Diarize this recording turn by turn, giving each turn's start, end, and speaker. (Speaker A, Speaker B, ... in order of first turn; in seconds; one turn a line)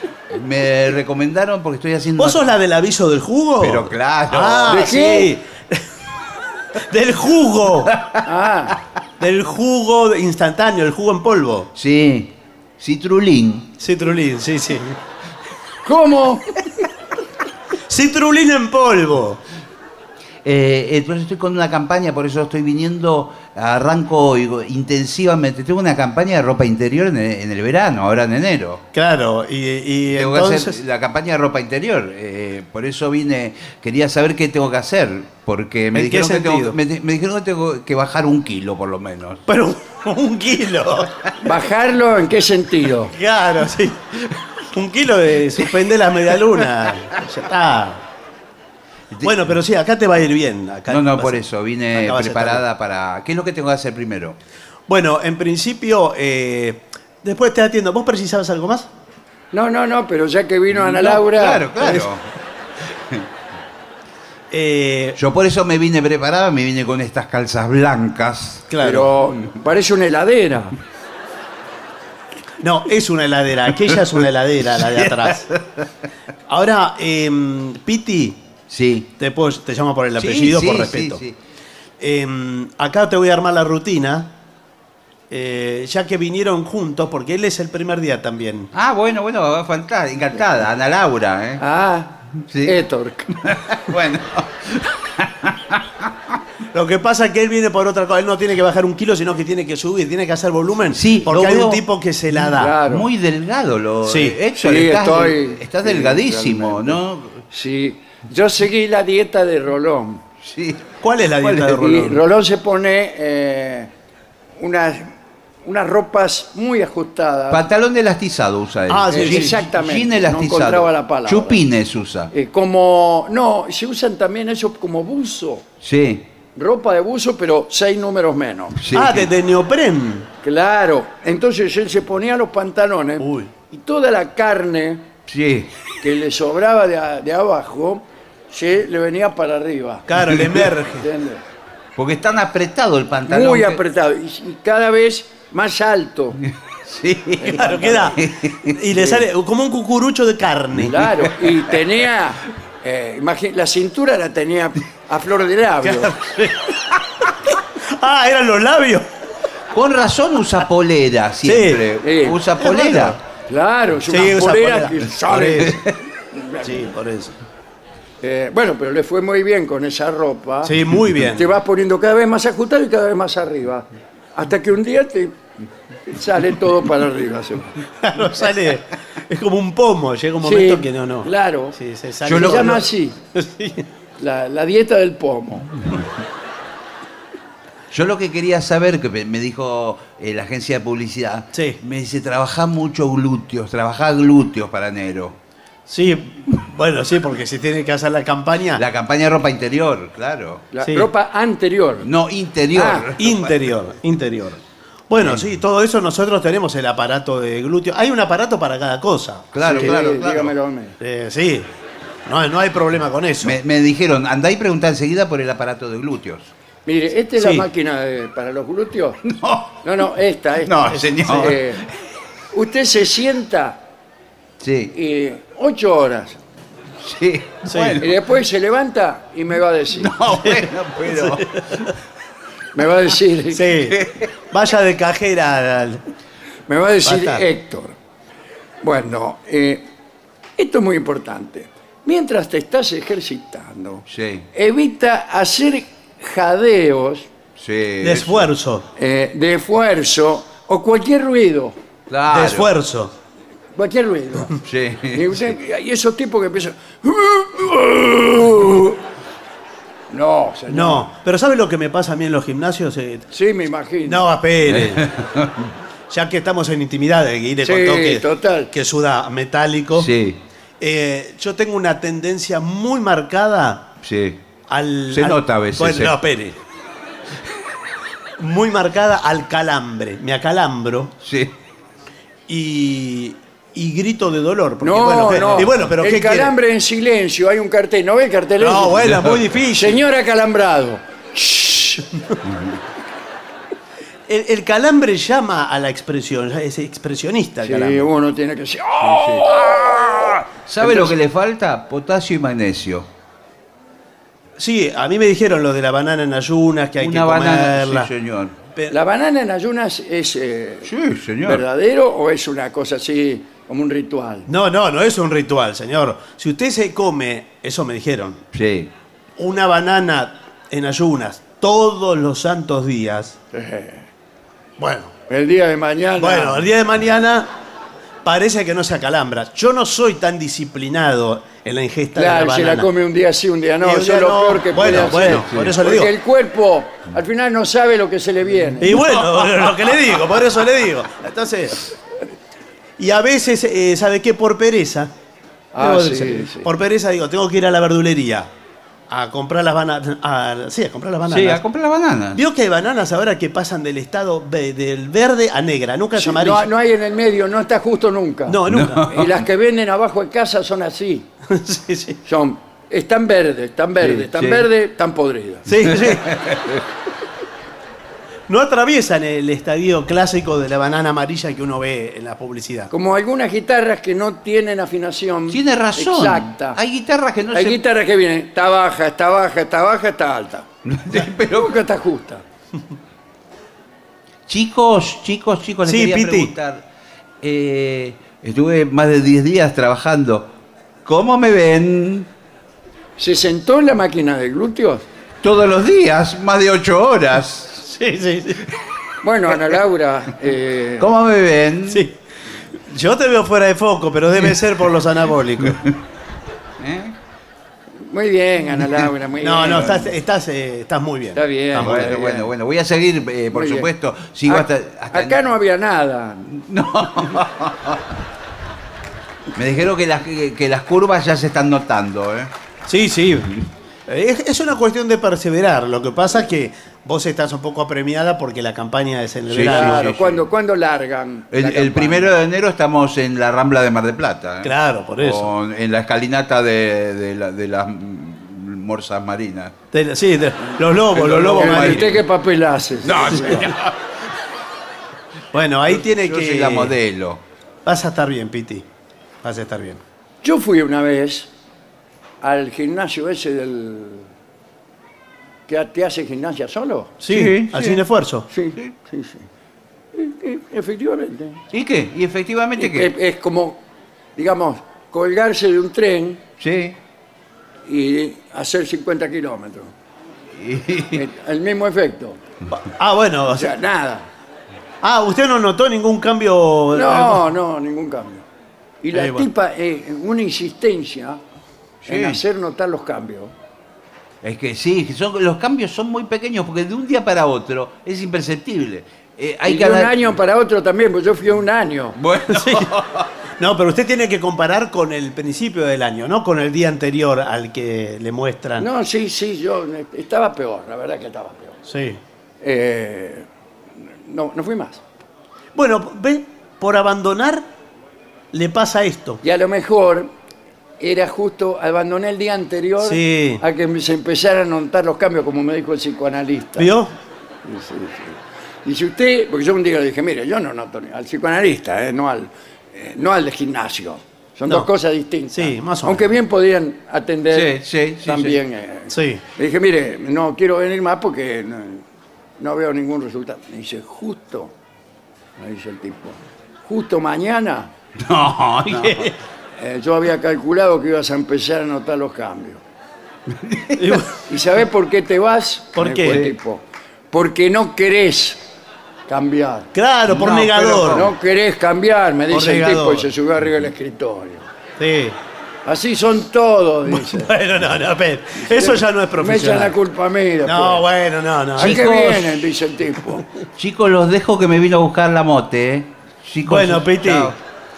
Speaker A: 0.3-2.5
Speaker B: 2.2-5.8
Speaker A: 3.6-4.9
Speaker C: 4.7-5.3
Speaker B: 6.7-7.9
Speaker A: 7.9-8.2
Speaker C: 8.2-8.8
Speaker B: 9.2-11.7
Speaker A: 11.8-13.7
Speaker B: 13.8-15.0
Speaker C: 15.8-16.6
Speaker B: 17.9-19.4
Speaker A: 20.4-28.8
Speaker B: 28.9-30.8
Speaker A: 30.1-39.4
Speaker B: 35.9-36.8
Speaker B: 39.5-41.1
Speaker C: 41.4-43.1
Speaker B: 43.1-44.1
Speaker B: 44.7-48.0
Speaker B: 49.2-52.6
Speaker A: 50.9-54.4
Speaker B: 54.9-58.9
Speaker C: 59.5-61.6
Speaker A: 60.8-62.2
Speaker B: 61.8-62.1
Speaker B: 64.5-65.2
Speaker A: 65.2-68.7
Speaker B: 68.7-69.1
Speaker C: 68.8-70.7
Speaker B: 72.6-75.5
Speaker A: 74.8-75.6
Speaker B: 76.5-78.4
Speaker A: 78.7-79.1
Speaker B: 79.2-81.2
Speaker A: 80.2-81.3
Speaker B: 82.0-84.3
Speaker B: 85.3-88.7
Speaker A: 88.7-91.6
Speaker C: 91.6-93.3
Speaker A: 92.5-92.8
Speaker A: 93.4-96.1
Speaker B: 96.7-102.8
Speaker A: 100.9-101.8
Speaker C: 102.6-103.1
Speaker A: 102.8-107.4
Speaker B: 104.0-104.4
Speaker C: 104.5-110.2
Speaker A: 110.4-111.8
Speaker B: 111.0-112.2
Speaker C: 111.8-113.9
Speaker C: 114.6-115.1
Speaker C: 115.6-117.6
Speaker A: 117.5-122.3
Speaker B: 118.9-119.6
Speaker C: 119.1-121.6
Speaker C: 122.3-125.7
Speaker A: 125.8-126.2
Speaker C: 126.5-128.8
Speaker A: 128.8-129.3
Speaker B: 128.9-130.3
Speaker C: 130.4-135.1
Speaker B: 133.2-133.5
Speaker A: 135.3-135.7
Speaker C: 136.0-140.1
Speaker B: 140.1-141.1
Speaker C: 140.9-141.4
Speaker A: 141.9-143.8
Speaker C: 143.3-146.4
Speaker A: 146.8-148.8
Speaker C: 147.4-148.1
Speaker B: 147.5-151.1
Speaker C: 149.0-149.2
Speaker C: 150.8-156.1
Speaker B: 155.8-156.8
Speaker B: 157.8-159.1
Speaker A: 159.7-163.2
Speaker B: 161.4-161.8
Speaker C: 162.0-162.4
Speaker B: 162.6-163.2
Speaker C: 163.5-165.8
Speaker B: 164.1-165.8
Speaker C: 166.3-166.9
Speaker B: 166.6-167.3
Speaker C: 168.2-170.7
Speaker B: 170.6-171.5
Speaker C: 171.3-175.3
Speaker C: 176.1-177.8
Speaker B: 178.0-183.8
Speaker C: 180.4-181.8
Speaker A: 182.2-182.8
Speaker C: 182.3-183.2
Speaker C: 184.2-185.7
Speaker A: 187.9-195.4
Speaker B: 191.5-191.8
Speaker B: 195.9-198.8
Speaker A: 198.8-200.6
Speaker C: 200.7-202.1
Speaker B: 200.8-201.1
Speaker A: 202.0-203.6
Speaker C: 202.7-203.1
Speaker B: 203.2-209.9
Speaker A: 209.5-210.5
Speaker C: 209.6-210.9
Speaker B: 211.0-211.7
Speaker B: 212.2-213.6
Speaker A: 213.4-216.5
Speaker C: 216.8-219.2
Speaker B: 217.4-217.6
Speaker A: 219.3-219.8
Speaker C: 219.8-221.8
Speaker A: 220.6-221.9
Speaker C: 222.5-223.8
Speaker A: 224.6-224.9
Speaker C: 224.9-226.4
Speaker A: 227.0-228.1
Speaker B: 227.7-228.0
Speaker C: 228.0-230.1
Speaker A: 230.0-231.9
Speaker B: 230.3-231.9
Speaker C: 232.7-233.7
Speaker B: 233.5-236.0
Speaker A: 233.9-234.3
Speaker C: 236.7-237.9
Speaker B: 237.0-237.4
Speaker C: 238.8-239.8
Speaker C: 240.6-247.3
Speaker A: 244.1-244.4
Speaker A: 247.6-248.5
Speaker B: 248.0-248.8
Speaker C: 249.0-251.8
Speaker A: 252.1-252.7
Speaker B: 252.3-253.1
Speaker C: 253.7-254.6
Speaker A: 254.6-255.4
Speaker C: 255.1-259.0
Speaker C: 260.1-261.1
Speaker B: 260.7-263.2
Speaker C: 263.3-264.2
Speaker B: 264.0-265.1
Speaker A: 264.6-265.7
Speaker B: 266.1-270.1
Speaker C: 267.6-268.7
Speaker A: 269.9-270.4
Speaker B: 270.8-273.9
Speaker A: 274.0-274.4
Speaker B: 274.7-276.6
Speaker A: 275.1-276.1
Speaker B: 278.4-281.1
Speaker A: 281.2-281.5
Speaker B: 282.5-286.5
Speaker C: 284.8-289.0
Speaker B: 288.6-290.0
Speaker A: 289.0-289.4
Speaker C: 289.8-292.1
Speaker A: 292.4-292.8
Speaker B: 294.3-298.1
Speaker C: 297.6-300.4
Speaker A: 299.0-299.4
Speaker A: 300.7-303.1
Speaker B: 304.6-308.1
Speaker A: 307.0-308.5
Speaker C: 308.9-310.9
Speaker A: 310.9-311.6
Speaker C: 311.4-314.5
Speaker B: 314.5-318.4
Speaker A: 318.5-318.9
Speaker B: 319.4-323.4
Speaker C: 323.5-324.1
Speaker B: 324.8-325.1
Speaker C: 325.3-326.6
Speaker B: 326.2-327.5
Speaker B: 328.2-332.9
Speaker C: 332.1-339.0
Speaker B: 333.8-336.1
Speaker A: 335.2-335.7
Speaker B: 338.8-341.9
Speaker B: 343.0-345.1
Speaker C: 345.7-346.7
Speaker B: 345.8-348.5
Speaker B: 349.1-351.6
Speaker A: 351.3-352.4
Speaker B: 352.3-356.7
Speaker C: 356.1-358.6
Speaker B: 358.5-359.2
Speaker A: 358.7-359.4
Speaker C: 359.1-361.3
Speaker B: 361.5-362.2
Speaker C: 362.2-365.7
Speaker A: 364.0-364.7
Speaker B: 365.7-366.5
Speaker A: 365.9-366.8
Speaker B: 368.5-372.9
Speaker C: 372.9-376.8
Speaker A: 375.5-377.8
Speaker C: 377.5-382.4
Speaker A: 380.8-381.8
Speaker A: 384.5-386.8
Speaker B: 385.8-386.5
Speaker A: 387.4-390.5
Speaker A: 391.1-392.3
Speaker C: 393.2-395.0
Speaker A: 395.4-397.8
Speaker B: 397.9-398.6
Speaker C: 399.2-401.1
Speaker A: 401.0-402.0
Speaker B: 401.9-402.1
Speaker B: 402.9-405.8
Speaker A: 405.7-405.9
Speaker A: 406.8-407.1
Speaker C: 408.0-410.1
Speaker B: 409.4-412.2
Speaker C: 411.4-412.5
Speaker A: 411.7-415.4
Speaker C: 413.5-413.9
Speaker C: 414.4-416.5
Speaker A: 416.5-418.0
Speaker A: 419.6-422.5
Speaker B: 422.9-430.1
Speaker A: 429.5-430.4
Speaker C: 429.6-432.3
Speaker A: 431.5-439.7
Speaker B: 434.6-435.5
Speaker B: 439.9-442.2
Speaker A: 441.1-442.2
Speaker C: 441.6-443.6
Speaker A: 443.0-443.9
Speaker B: 445.5-446.9
Speaker A: 445.9-447.4
Speaker B: 447.8-448.9
Speaker B: 449.4-450.0
Speaker C: 450.4-451.5
Speaker C: 452.4-454.3
Speaker C: 455.7-457.1
Speaker B: 457.2-458.5
Speaker A: 457.3-458.0
Speaker C: 458.5-459.4
Speaker C: 460.1-461.6
Speaker A: 461.7-463.1
Speaker C: 462.8-463.8
Speaker C: 464.4-466.4
Speaker A: 466.6-466.9
Speaker C: 467.9-469.9
Speaker A: 470.6-471.2
Speaker C: 471.1-472.4
Speaker B: 472.7-473.7
Speaker C: 473.5-474.3
Speaker B: 475.0-477.4
Speaker C: 476.9-478.4
Speaker C: 479.0-481.4
Speaker B: 479.1-479.5
Speaker A: 482.0-482.4
Speaker C: 482.1-483.5
Speaker A: 484.4-490.2
Speaker C: 489.6-492.1
Speaker A: 492.2-493.3
Speaker B: 492.5-492.9
Speaker B: 493.6-498.9
Speaker C: 498.8-501.8
Speaker B: 501.9-502.2
Speaker C: 502.6-503.5
Speaker C: 504.2-505.0
Speaker B: 505.7-507.6
Speaker B: 508.5-509.4
Speaker C: 509.4-510.3
Speaker C: 511.0-516.9
Speaker B: 513.0-513.6
Speaker B: 516.8-517.1
Speaker C: 517.6-532.0
Speaker B: 525.5-526.4
Speaker A: 527.5-528.6
Speaker B: 529.1-529.4
Speaker C: 532.6-534.7
Speaker C: 535.6-537.9
Speaker A: 538.2-539.3
Speaker B: 538.9-539.3
Speaker C: 539.8-542.8
Speaker A: 543.5-544.1
Speaker B: 544.0-544.3
Speaker C: 544.5-548.6
Speaker B: 546.0-546.5
Speaker C: 549.3-549.9
Speaker B: 549.9-551.3
Speaker A: 550.3-551.2
Speaker C: 550.9-554.7
Speaker B: 552.5-553.3
Speaker B: 555.0-555.4
Speaker C: 555.9-557.5
Speaker B: 557.1-559.9
Speaker C: 558.6-561.0
Speaker B: 560.6-562.2
Speaker C: 561.8-563.4
Speaker A: 561.8-562.5
Speaker A: 563.8-567.6
Speaker B: 566.6-567.5